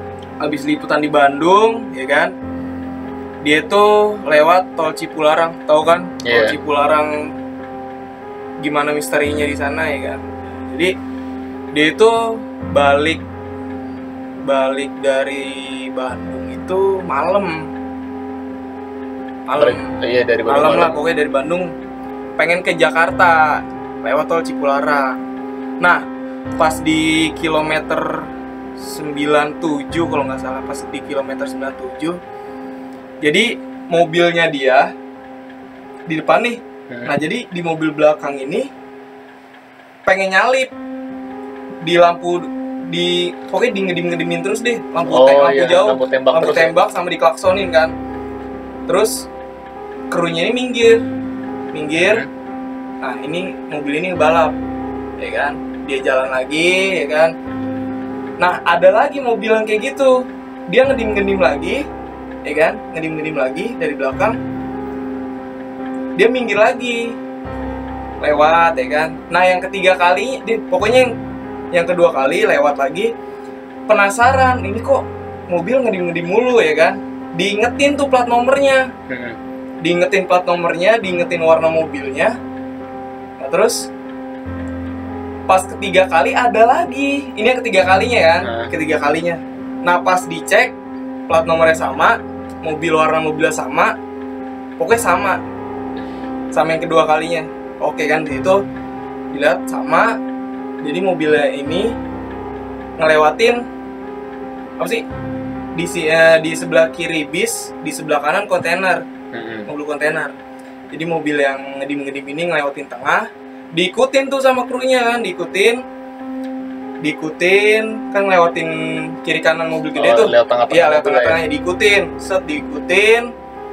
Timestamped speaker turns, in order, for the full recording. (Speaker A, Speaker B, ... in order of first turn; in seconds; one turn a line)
Speaker A: 0.4-2.3
Speaker A: 3.4-7.1
Speaker B: 6.2-6.5
Speaker A: 8.6-10.9
Speaker A: 11.7-13.2
Speaker A: 14.4-17.6
Speaker A: 19.5-19.9
Speaker B: 19.6-21.0
Speaker A: 20.5-21.7
Speaker A: 22.4-25.2
Speaker A: 26.6-28.2
Speaker A: 28.8-32.2
Speaker A: 33.2-34.9
Speaker A: 36.1-38.7
Speaker B: 36.9-37.1
Speaker A: 40.0-40.7
Speaker A: 41.8-47.9
Speaker B: 45.1-46.7
Speaker A: 48.9-49.2
Speaker A: 50.1-51.0
Speaker A: 51.7-52.2
Speaker B: 52.0-52.3
Speaker A: 53.0-54.5
Speaker A: 55.2-57.3
Speaker A: 58.4-60.1
Speaker A: 60.7-61.8
Speaker A: 62.4-64.4
Speaker A: 66.2-67.1
Speaker A: 68.2-71.1
Speaker A: 71.7-73.1
Speaker A: 73.9-78.9
Speaker B: 79.1-79.4
Speaker A: 79.8-82.3
Speaker A: 83.4-83.8
Speaker A: 85.5-90.7
Speaker B: 88.4-88.7
Speaker A: 91.3-93.9
Speaker A: 94.8-95.4
Speaker A: 96.5-98.6
Speaker A: 99.3-100.2
Speaker A: 100.8-101.9
Speaker A: 103.0-103.6
Speaker A: 104.8-105.0
Speaker A: 105.8-109.0
Speaker B: 109.3-109.7
Speaker A: 109.7-110.3
Speaker A: 110.9-115.8
Speaker A: 117.0-123.3
Speaker B: 119.9-121.4